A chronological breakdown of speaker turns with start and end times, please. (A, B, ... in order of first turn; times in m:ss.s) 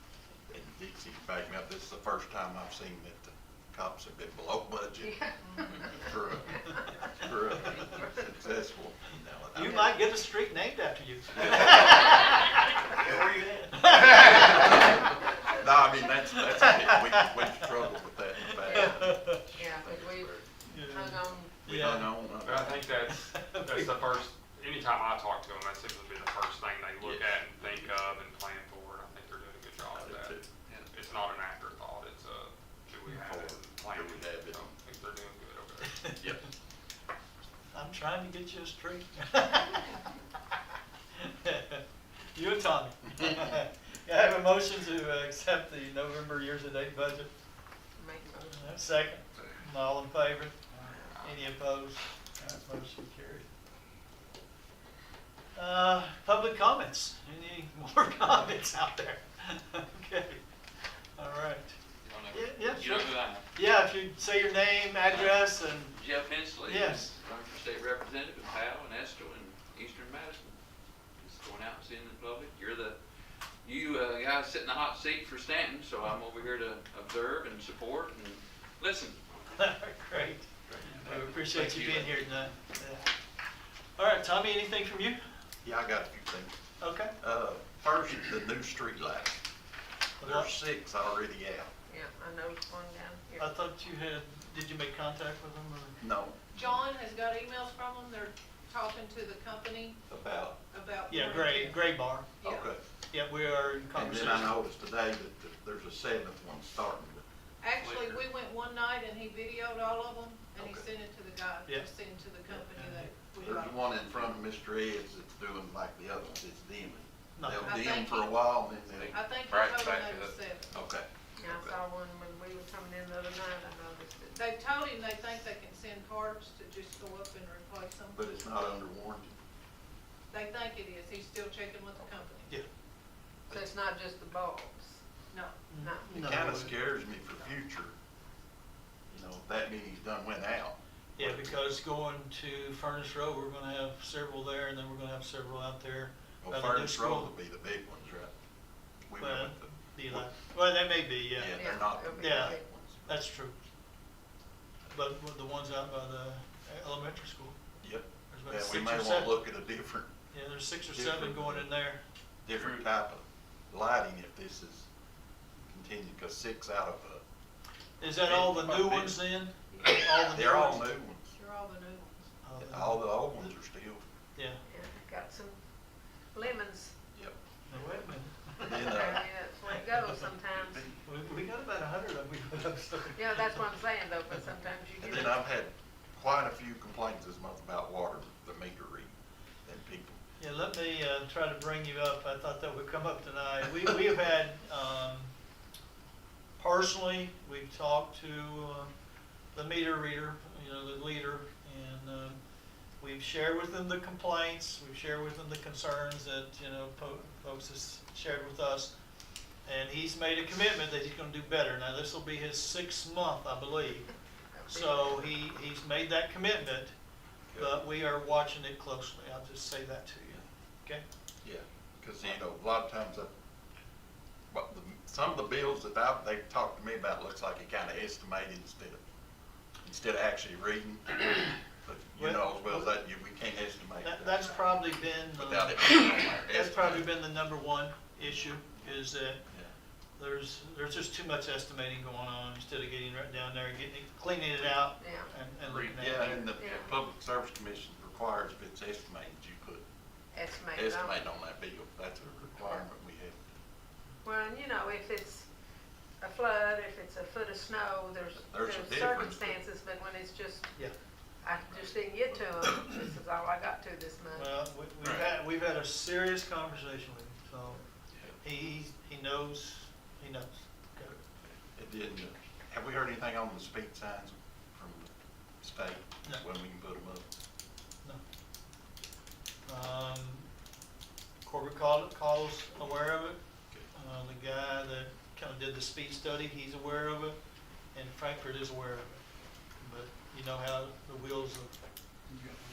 0:00.5-0:05.2 A
0:05.0-0:06.0 B
0:05.8-0:09.9 A
0:07.8-0:08.2 B
0:09.5-0:14.9 C
0:14.1-0:14.9 A
0:15.5-0:19.4 A
0:16.6-0:17.4 C
0:18.4-0:19.4 C
0:18.6-0:21.6 B
0:20.6-0:22.2 C
0:21.6-0:22.9 A
0:22.4-0:36.2 D
0:23.1-0:24.0 C
0:27.0-0:28.2 A
0:29.9-0:30.5 A
0:33.0-0:34.7 A
0:36.0-0:36.2 C
0:37.7-0:40.0 C
0:41.2-0:47.3 C
0:48.0-0:48.7 B
0:48.5-0:53.5 C
0:55.5-1:00.4 C
1:01.1-1:01.8 C
1:02.0-1:03.4 E
1:02.3-1:06.0 C
1:05.1-1:10.6 E
1:06.6-1:07.1 C
1:11.2-1:13.0 E
1:13.6-1:19.2 E
1:19.5-1:20.5 C
1:20.7-1:20.9 A
1:20.8-1:22.3 E
1:21.0-1:23.1 C
1:24.0-1:25.2 C
1:25.6-1:26.6 A
1:26.8-1:27.2 C
1:27.2-1:29.4 A
1:30.2-1:30.5 C
1:30.2-1:31.7 A
1:31.9-1:33.6 B
1:33.4-1:36.0 C
1:36.0-1:36.6 A
1:36.5-1:40.0 F
1:40.1-1:40.6 A
1:40.7-1:42.7 F
1:41.1-1:42.3 C
1:42.4-1:42.8 A
1:43.1-1:44.6 C
1:43.9-1:47.2 A
1:47.6-1:54.3 F
1:47.8-1:48.2 E
1:50.6-1:50.8 A
1:52.7-1:53.1 C
1:53.4-1:59.2 A
1:57.4-1:57.7 C
1:57.6-1:58.6 F
1:59.0-2:00.4 E
1:59.1-2:00.8 F
2:00.7-2:01.7 A
2:01.4-2:04.4 B
2:04.3-2:08.2 F
2:08.1-2:09.4 A
2:10.3-2:12.6 F
2:13.5-2:15.0 B
2:15.3-2:15.6 F
2:15.7-2:16.7 C
2:15.8-2:16.3 B
2:16.1-2:17.9 A
2:19.1-2:21.6 A
2:21.2-2:27.3 C
2:26.4-2:28.3 A
2:29.0-2:30.3 A
2:29.2-2:33.6 C
2:31.3-2:33.2 A
2:31.5-2:32.6 B
2:34.9-2:37.6 C
2:37.8-2:40.1 A
2:38.3-2:39.4 C
2:40.3-2:42.0 C
2:40.9-2:41.6 A
2:42.4-2:44.9 A
2:42.6-2:42.8 E
2:45.6-2:47.2 A
2:48.0-2:50.9 C
2:48.2-2:49.2 A
2:49.7-2:50.0 F
2:49.8-2:51.3 A
2:51.3-2:52.3 F
2:52.4-2:53.4 C
2:52.6-2:54.0 A
2:54.4-2:54.6 C
2:54.6-2:55.6 B
2:56.3-2:56.9 B
2:57.7-2:59.0 C
2:58.6-2:59.2 A
2:58.6-3:00.9 B
3:00.5-3:01.1 A
3:01.0-3:03.6 C
3:03.1-3:05.4 B
3:05.0-3:09.1 A
3:09.6-3:10.2 A
3:10.4-3:15.3 C
3:16.6-3:18.9 C
3:19.5-3:22.4 C
3:23.0-3:28.9 C
3:29.6-3:34.1 C
3:34.6-3:35.0 B
3:34.7-3:36.9 C
3:37.5-3:37.8 A
3:37.6-3:41.0 C
3:41.4-3:43.3 A
3:44.5-3:49.0 A
3:49.8-3:54.6 A
3:52.2-3:52.9 C
3:54.0-3:59.4 C
3:55.3-3:57.1 A
4:00.2-4:06.5 C
4:05.0-4:05.3 B
4:05.6-4:06.0 E
4:06.0-4:09.8 A
4:06.6-4:06.9 B
4:10.3-4:11.2 B
4:10.7-4:13.4 A
4:12.6-4:12.8 B
4:14.2-4:15.5 B
4:16.2-4:20.7 B
4:18.4-4:19.6 A
4:21.4-4:24.6 B
4:21.7-4:22.6 A
4:24.3-4:27.8 C
4:28.4-4:31.2 C
4:31.4-4:35.1 A
4:35.6-4:37.2 A
4:39.7-4:40.5 C
4:41.4-4:47.4 C
4:47.9-4:49.2 C
4:49.8-4:51.7 C